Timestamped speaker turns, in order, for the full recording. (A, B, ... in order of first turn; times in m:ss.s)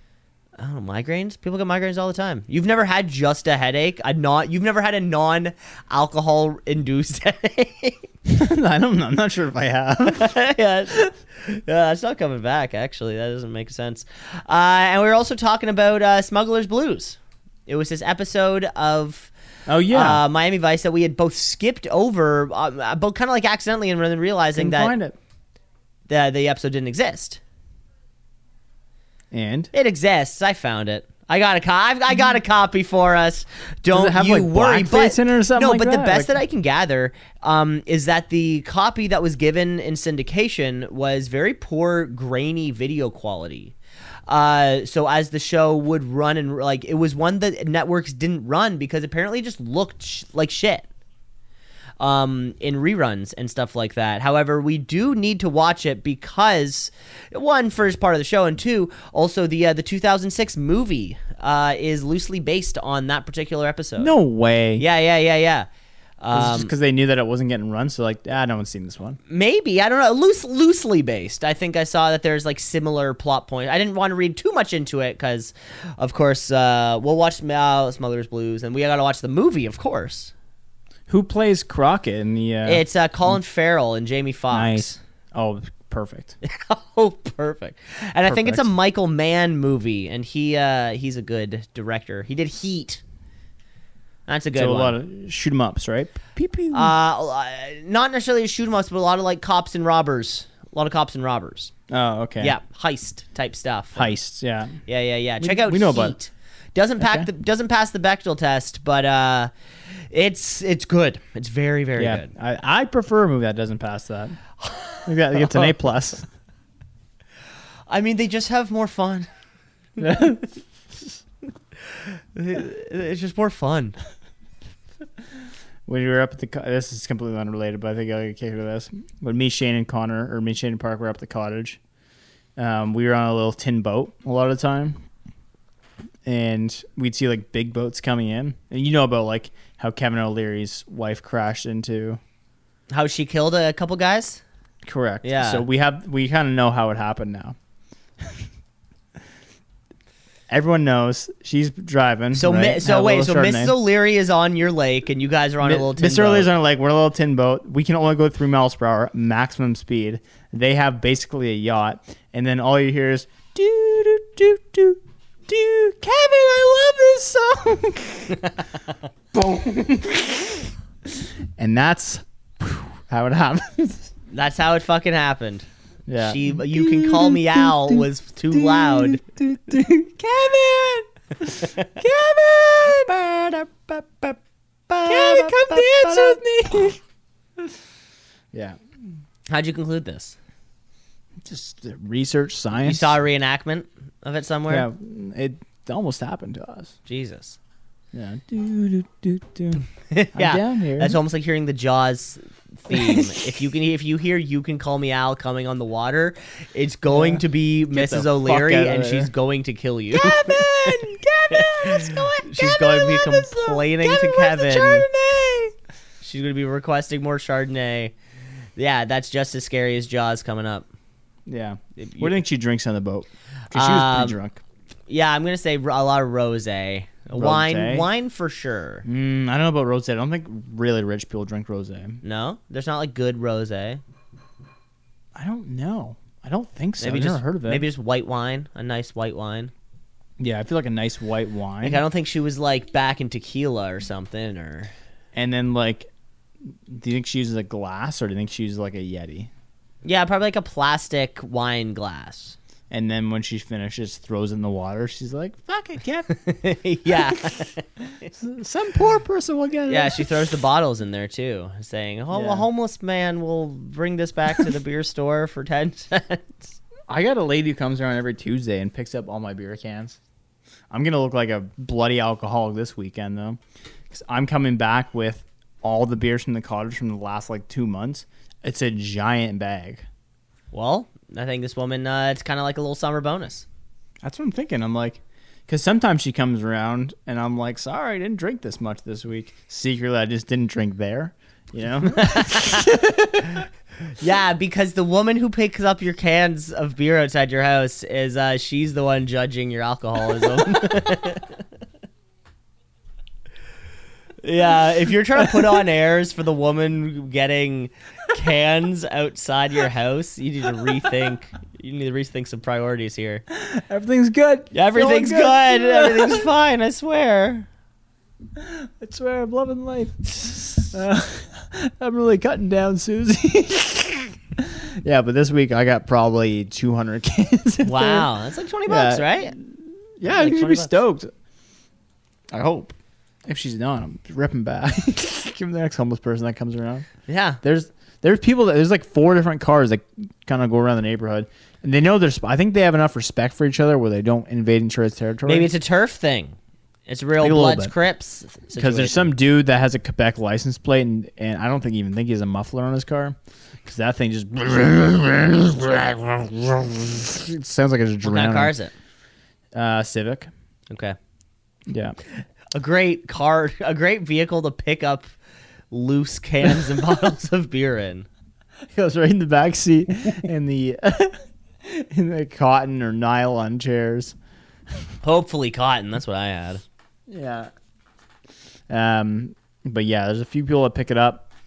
0:00.6-0:08.0 A
0:08.2-0:10.4 B
0:10.1-0:19.3 A
0:19.7-0:20.2 B
0:19.9-0:24.9 A
0:24.5-0:25.2 B
0:26.1-0:27.4 A
0:29.3-0:29.7 B
0:29.7-0:43.7 A
0:33.9-0:36.3 B
0:44.3-0:50.9 A
0:52.0-1:04.1 A
1:04.0-1:04.8 B
1:04.8-1:05.7 A
1:06.2-1:06.7 A
1:06.3-1:09.2 B
1:09.3-1:20.3 A
1:21.1-1:23.3 B
1:22.6-1:25.0 A
1:24.5-1:26.4 B
1:26.4-1:33.0 A
1:28.2-1:28.6 B
1:34.3-1:35.0 A
1:34.5-1:36.9 B
1:36.7-1:41.7 A
1:41.9-1:42.5 B
1:42.4-1:44.1 A
1:44.0-1:44.8 B
1:44.9-1:49.5 A
1:45.4-1:46.2 B
1:47.0-1:47.3 B
1:50.1-1:52.3 A
1:52.0-1:54.4 B
1:54.7-1:55.0 A
1:55.0-1:56.2 B
1:57.9-1:59.3 A
2:00.0-2:00.5 B
2:01.9-2:04.0 A
2:05.9-2:11.8 B
2:12.6-2:15.0 B
2:16.2-2:22.2 B
2:22.9-2:24.4 A
2:24.8-2:27.6 B
2:25.2-2:25.6 A
2:30.5-2:33.8 B
2:32.3-2:36.5 A
2:35.6-2:48.5 B
2:49.3-2:50.7 B
2:51.6-2:54.1 B
2:54.3-2:55.6 A
2:56.1-3:03.6 B
2:56.2-2:59.2 A
3:03.9-3:04.4 A
3:04.9-3:06.4 A
3:05.0-3:07.0 B
3:09.5-3:10.4 A
3:11.4-3:13.2 B
3:12.8-3:14.9 A
3:14.7-3:16.9 B
3:17.0-3:17.6 A
3:18.1-3:21.2 B
3:20.1-3:35.0 A
3:22.9-3:23.5 B
3:27.1-3:29.3 B
3:30.1-3:35.7 B
3:36.2-3:38.1 A
3:38.8-3:40.8 A
3:41.5-3:44.6 B
3:42.0-3:42.4 A
3:43.7-3:44.4 A
3:45.1-3:49.0 A
3:47.3-3:48.1 B
3:49.0-3:52.2 B
3:52.2-3:54.0 A
3:55.3-3:57.8 B
3:57.0-3:59.7 A
4:00.4-4:02.0 B
4:01.8-4:04.9 A
4:05.3-4:06.1 B
4:06.7-4:09.5 B
4:10.0-4:12.6 A
4:12.9-4:16.3 B
4:16.3-4:17.8 A
4:18.3-4:20.3 B
4:19.9-4:26.7 A
4:22.3-4:22.6 B
4:27.1-4:30.2 B
4:30.9-4:33.6 B
4:34.1-4:40.0 B
4:40.7-4:43.6 A
4:44.2-4:53.7 B
4:52.1-4:53.0 A
4:54.2-5:01.6 A
5:04.4-5:13.4 A
5:05.4-5:05.7 B
5:13.5-5:16.5 B
5:14.7-5:17.7 A
5:18.6-5:28.3 B
5:27.8-5:29.5 A
5:28.8-5:31.3 B
5:30.3-5:30.9 A
5:32.5-5:32.9 B
5:33.4-5:37.1 B
5:37.3-5:37.6 A
5:37.6-5:45.7 B
5:45.4-5:46.6 A
5:47.1-5:49.3 A
5:47.4-5:47.9 B
5:48.8-5:58.7 B
5:58.2-5:58.9 A
5:59.7-6:00.5 B
6:00.9-6:01.2 A
6:01.9-6:02.2 B
6:02.7-6:05.3 A
6:05.9-6:08.3 A
6:08.9-6:14.4 B
6:15.2-6:16.8 A
6:17.3-6:17.7 B
6:18.9-6:21.5 B